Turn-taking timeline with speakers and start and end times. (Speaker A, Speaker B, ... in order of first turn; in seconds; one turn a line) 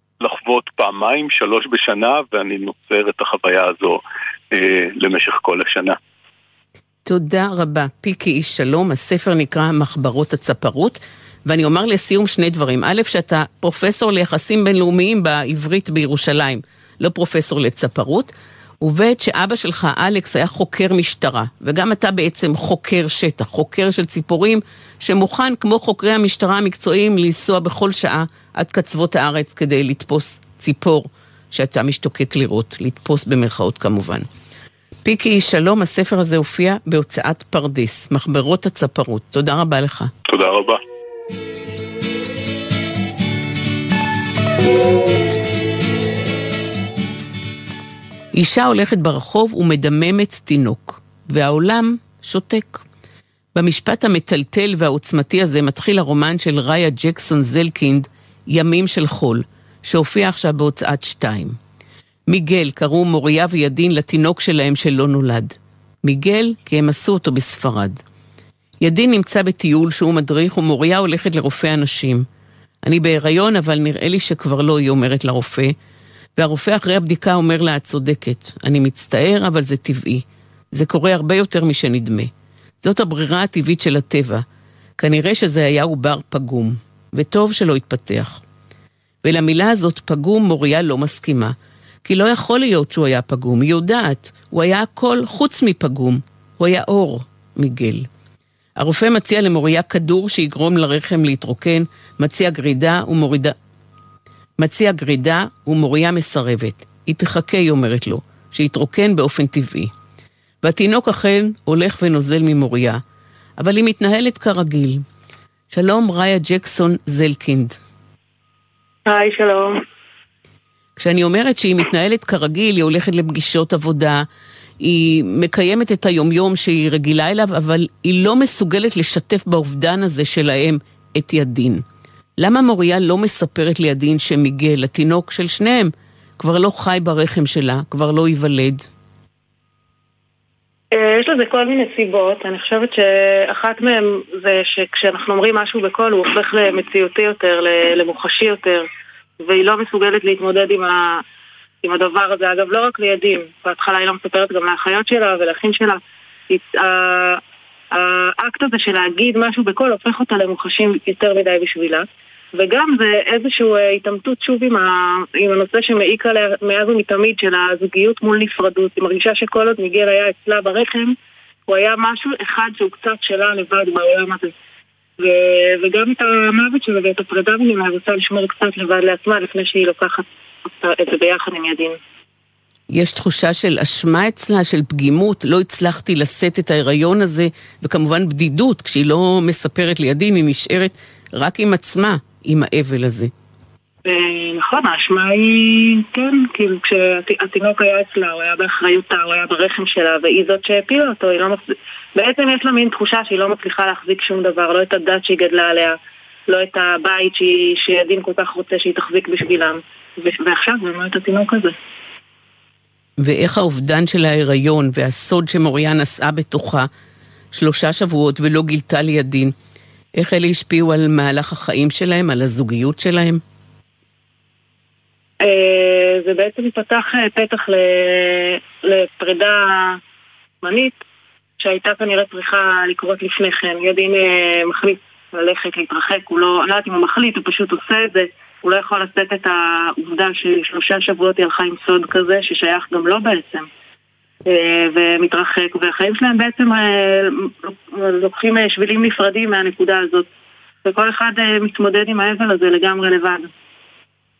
Speaker A: 0.2-6.0
Speaker B: 7.0-34.3
Speaker B: 35.0-40.1
Speaker A: 40.2-40.8
Speaker B: 48.3-52.8
Speaker B: 53.5-61.6
Speaker B: 62.3-68.0
Speaker B: 68.8-72.2
Speaker B: 72.8-75.7
Speaker B: 76.4-82.3
Speaker B: 82.8-84.4
Speaker B: 85.0-88.4
Speaker B: 89.2-98.1
Speaker B: 98.8-103.5
Speaker B: 104.6-109.9
Speaker B: 110.6-113.0
Speaker B: 113.6-115.0
Speaker B: 115.7-117.8
Speaker C: 119.0-119.8
Speaker B: 121.0-124.2
Speaker B: 124.8-131.8
Speaker B: 132.4-138.9
Speaker C: 140.9-148.8
Speaker C: 149.4-151.2
Speaker C: 151.8-157.4
Speaker C: 157.9-171.1
Speaker C: 171.7-174.5
Speaker C: 175.2-182.0
Speaker B: 182.9-193.3
Speaker C: 194.0-201.6
Speaker C: 202.2-206.0
Speaker C: 206.5-211.7
Speaker B: 213.2-216.9
Speaker B: 217.5-219.5
Speaker B: 220.2-223.4
Speaker C: 225.4-230.0
Speaker C: 230.6-231.0
Speaker C: 231.6-243.7
Speaker C: 244.4-250.3
Speaker C: 250.8-253.5